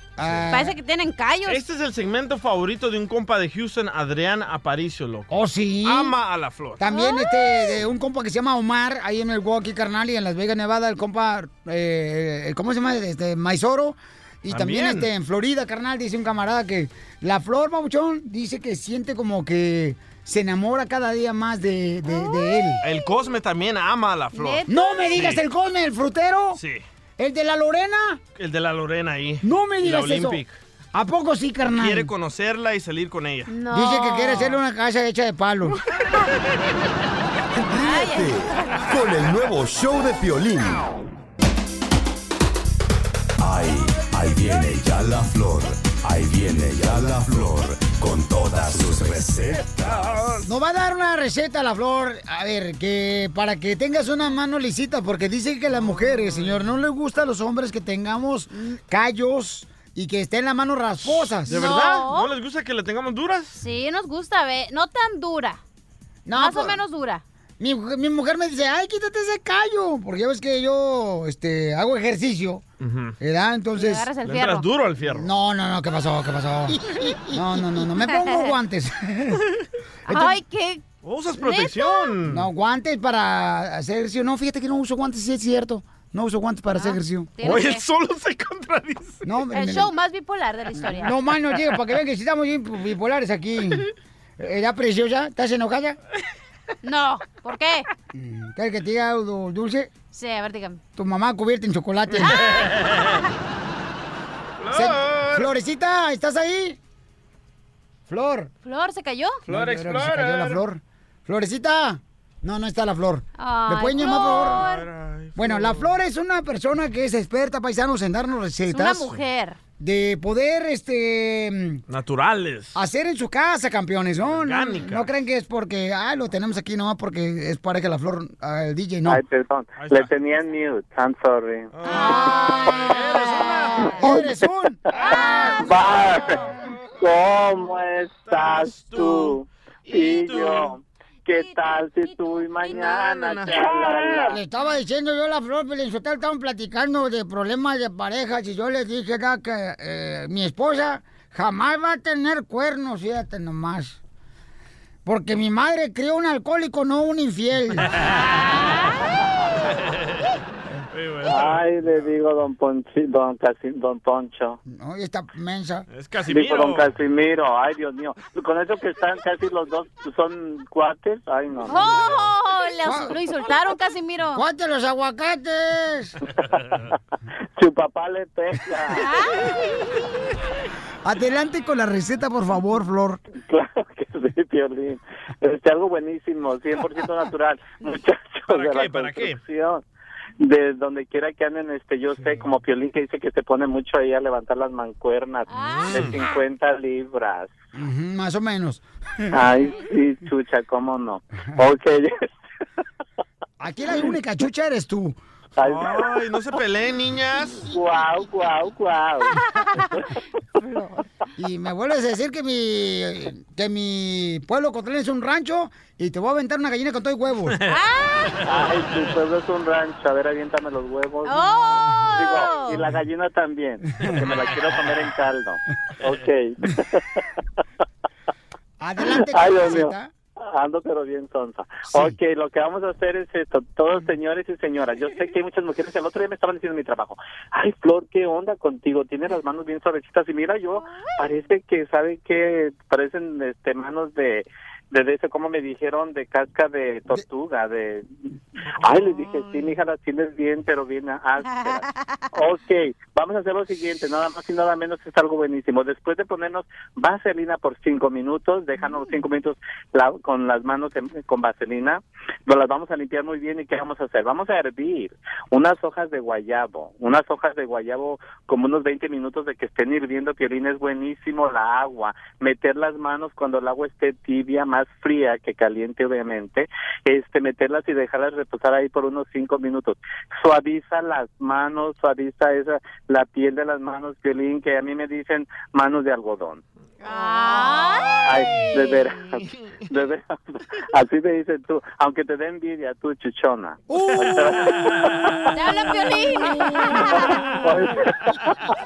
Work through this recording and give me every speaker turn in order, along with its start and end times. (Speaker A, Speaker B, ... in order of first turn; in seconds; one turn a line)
Speaker A: 0.2-0.8
Speaker B: 0.5-1.6
Speaker C: 1.4-5.3
Speaker A: 5.3-6.1
Speaker C: 5.8-6.8
Speaker A: 6.8-22.8
Speaker B: 6.9-7.7
Speaker C: 14.5-15.1
Speaker B: 22.1-23.1
Speaker C: 22.8-24.6
Speaker B: 24.3-25.2
Speaker A: 24.7-26.6
Speaker C: 25.1-25.4
Speaker C: 26.5-26.8
Speaker A: 27.2-28.2
Speaker C: 28.4-30.6
Speaker A: 29.4-30.4
Speaker A: 30.9-32.1
Speaker C: 31.7-33.5
Speaker B: 33.5-34.6
Speaker A: 33.7-35.8
Speaker D: 37.5-41.0
Speaker B: 37.7-38.8
Speaker D: 43.4-50.1
Speaker C: 49.8-50.4
Speaker A: 50.4-62.0
Speaker C: 56.2-56.5
Speaker C: 61.5-63.5
Speaker B: 61.5-62.3
Speaker B: 63.5-65.6
Speaker A: 66.2-66.8
Speaker B: 66.3-67.2
Speaker A: 67.6-72.6
Speaker C: 72.8-73.2
Speaker A: 73.2-74.1
Speaker B: 73.8-74.7
Speaker C: 74.2-75.3
Speaker A: 75.1-79.4
Speaker B: 78.0-78.5
Speaker A: 80.1-80.4
Speaker B: 80.1-82.2
Speaker C: 81.0-82.5
Speaker A: 82.2-87.7
Speaker B: 86.7-87.8
Speaker C: 87.4-89.2
Speaker A: 89.2-89.9
Speaker B: 89.5-91.2
Speaker A: 90.7-93.8
Speaker A: 94.4-96.0
Speaker B: 96.8-97.9
Speaker A: 98.1-99.9
Speaker B: 100.1-100.8
Speaker A: 101.0-102.4
Speaker C: 102.2-103.0
Speaker C: 104.6-105.5
Speaker A: 104.7-106.8
Speaker A: 108.1-108.5
Speaker B: 108.6-109.4
Speaker C: 109.5-110.6
Speaker A: 109.5-114.7
Speaker B: 113.4-114.9
Speaker C: 114.4-115.9
Speaker A: 115.3-119.1
Speaker B: 118.7-119.6
Speaker A: 119.8-121.8
Speaker C: 121.9-122.7
Speaker A: 122.7-129.2
Speaker C: 124.2-125.1
Speaker E: 129.1-131.7
Speaker C: 129.8-130.1
Speaker C: 131.7-133.8
Speaker A: 131.9-135.7
Speaker B: 132.6-134.2
Speaker E: 135.1-136.3
Speaker C: 135.7-136.2
Speaker E: 137.0-144.3
Speaker C: 138.2-140.7
Speaker B: 141.3-143.0
Speaker C: 142.6-144.3
Speaker A: 144.2-154.0
Speaker A: 155.0-157.9
Speaker B: 158.4-158.9
Speaker C: 160.9-162.0
Speaker E: 161.3-164.6
Speaker A: 164.7-165.9
Speaker C: 165.9-166.9
Speaker E: 166.3-171.9
Speaker B: 171.6-174.4
Speaker A: 172.8-173.2
Speaker A: 174.3-176.1
Speaker E: 177.6-179.1
Speaker B: 178.9-179.6
Speaker A: 181.0-183.2
Speaker E: 183.5-189.8
Speaker C: 188.5-189.4
Speaker E: 190.4-197.5
Speaker B: 195.5-196.1
Speaker C: 195.7-196.2
Speaker A: 197.7-199.4
Speaker E: 199.3-202.1
Speaker A: 203.6-205.2
Speaker E: 205.6-206.2
Speaker C: 205.6-207.7
Speaker E: 207.7-209.3
Speaker B: 209.5-209.8
Speaker B: 210.6-210.9
Speaker A: 211.4-217.6
Speaker B: 217.7-218.4
Speaker E: 218.5-221.4
Speaker C: 218.6-219.0
Speaker B: 221.2-222.8
Speaker A: 221.7-222.3
Speaker E: 222.2-227.2
Speaker C: 224.3-224.6
Speaker A: 228.8-230.1
Speaker E: 229.2-229.9
Speaker E: 230.5-248.1
Speaker E: 248.8-286.6
Speaker B: 251.4-252.2
Speaker B: 287.0-288.3
Speaker E: 288.2-295.3
Speaker A: 293.9-294.8
Speaker B: 295.5-297.3
Speaker E: 297.1-298.5